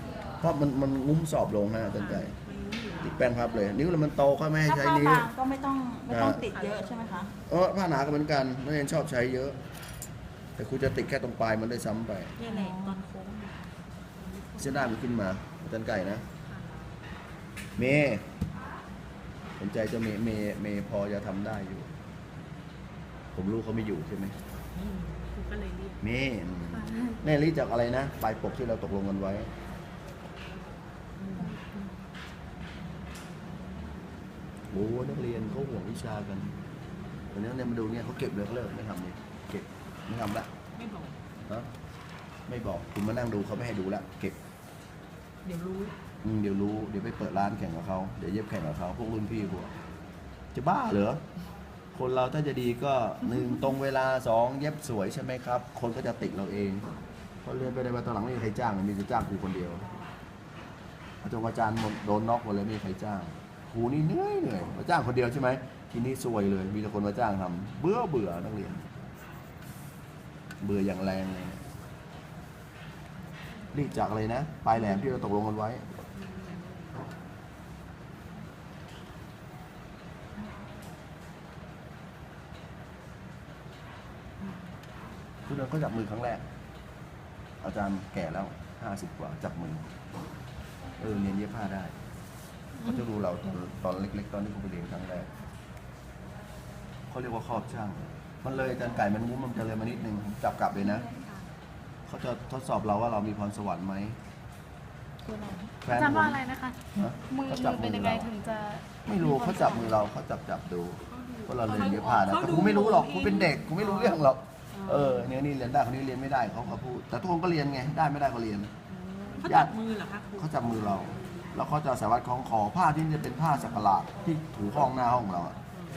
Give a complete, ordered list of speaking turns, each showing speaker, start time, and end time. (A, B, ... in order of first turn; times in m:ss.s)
0:00.4-0:02.4 A
0:02.0-0:03.2 B
0:03.0-0:05.3 A
0:04.6-0:07.3 C
0:06.1-0:06.4 A
0:06.2-0:07.3 B
0:07.4-0:09.6 A
0:10.6-0:12.4 A
0:12.4-0:15.0 B
0:12.5-0:12.9 C
0:14.6-0:16.2 A
0:16.4-0:17.0 B
0:17.8-0:18.2 A
0:19.6-0:21.9 A
0:23.3-0:24.4 A
0:24.7-0:26.0 B
0:26.0-0:29.5 A
0:31.2-0:31.6 B
0:34.7-0:36.5 A
0:37.3-0:40.5 A
0:40.7-0:41.2 B
0:42.5-0:44.4 A
0:45.4-0:46.0 B
0:46.2-0:49.7 A
0:50.5-0:51.2 A
0:51.9-0:56.9 A
0:57.4-0:59.9 A
1:01.2-1:08.9 A
1:10.6-1:11.6 A
1:13.7-1:15.9 A
1:16.2-1:17.1 B
1:25.4-1:26.4 A
1:27.6-1:29.9 A
1:31.0-1:31.9 A
1:32.8-1:35.3 A
1:37.1-1:41.1 A
1:41.0-1:41.5 B
1:42.1-1:44.2 A
1:45.8-1:46.4 A
1:45.8-1:50.0 D
1:46.9-1:48.3 A
1:49.0-1:58.7 A
1:51.1-1:54.2 B
1:54.8-1:55.2 B
1:58.9-2:00.6 B
1:59.4-1:59.7 A
2:00.4-2:05.6 A